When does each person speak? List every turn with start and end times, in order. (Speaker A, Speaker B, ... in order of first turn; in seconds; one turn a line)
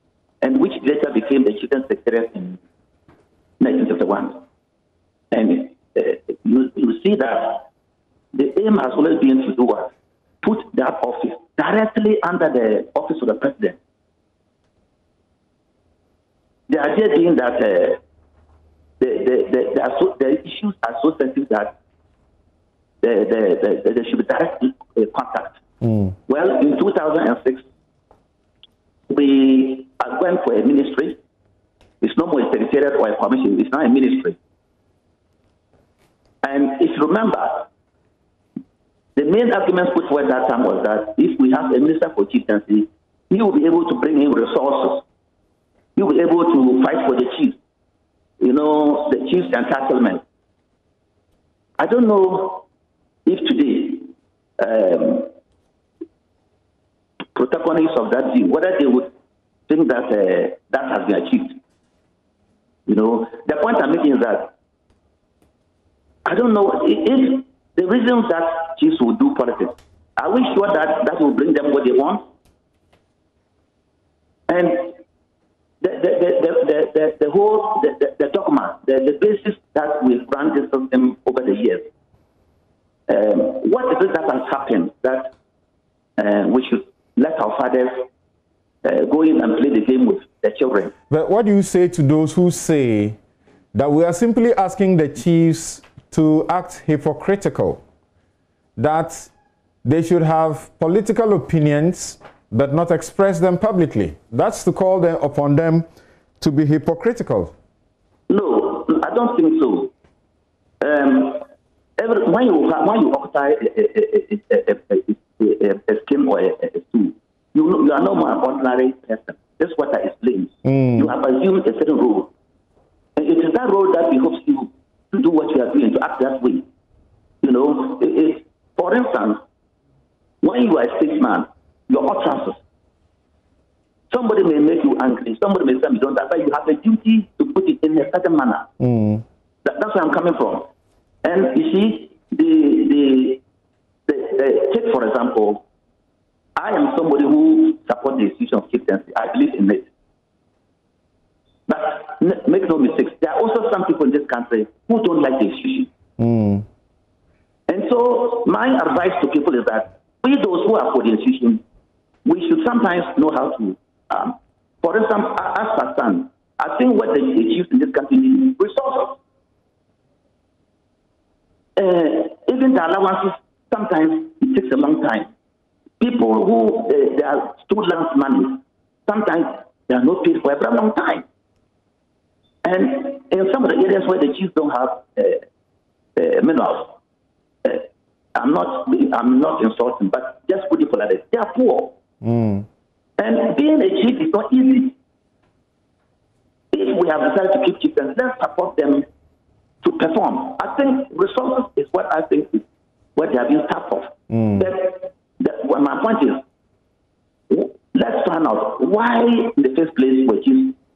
Speaker A: 0.4-2.6
Speaker A: 3.6-4.4
Speaker A: 5.3-7.7
Speaker A: 8.3-9.9
Speaker A: 10.4-13.8
Speaker A: 16.7-18.0
Speaker A: 19.0-21.8
Speaker A: 23.0-25.6
Speaker B: 25.8-26.1
Speaker A: 26.3-27.6
Speaker A: 29.1-31.2
Speaker A: 32.0-34.4
Speaker A: 36.4-37.7
Speaker A: 39.2-45.0
Speaker A: 46.0-47.6
Speaker A: 48.4-50.2
Speaker A: 51.8-52.6
Speaker A: 53.3-55.3
Speaker A: 57.4-59.1
Speaker A: 59.7-61.6
Speaker A: 62.9-64.5
Speaker A: 66.3-72.2
Speaker A: 74.5-75.0
Speaker A: 75.8-81.8
Speaker A: 83.1-85.3
Speaker A: 86.2-88.1
Speaker A: 88.8-90.9
Speaker B: 91.1-93.2
Speaker B: 93.7-97.8
Speaker B: 98.8-99.3
Speaker B: 99.8-105.9
Speaker B: 106.4-107.5
Speaker A: 108.3-109.9
Speaker A: 110.8-111.4
Speaker A: 112.0-122.3
Speaker B: 120.7-121.1
Speaker A: 123.2-126.7
Speaker A: 127.4-129.4
Speaker A: 130.4-132.6
Speaker A: 134.1-138.7
Speaker B: 138.8-139.2
Speaker A: 139.6-140.7
Speaker A: 141.2-143.4
Speaker A: 144.1-145.6
Speaker A: 146.6-149.9
Speaker A: 151.7-155.9
Speaker B: 156.2-156.7
Speaker A: 157.7-161.6
Speaker A: 162.3-169.2
Speaker A: 171.8-175.3
Speaker A: 176.0-181.2
Speaker A: 182.6-185.4
Speaker A: 186.2-187.0
Speaker A: 187.7-191.9
Speaker B: 192.2-192.7
Speaker A: 193.2-194.9
Speaker A: 196.7-199.1
Speaker A: 199.8-202.7
Speaker A: 203.2-206.4
Speaker B: 204.3-204.7
Speaker A: 207.5-210.8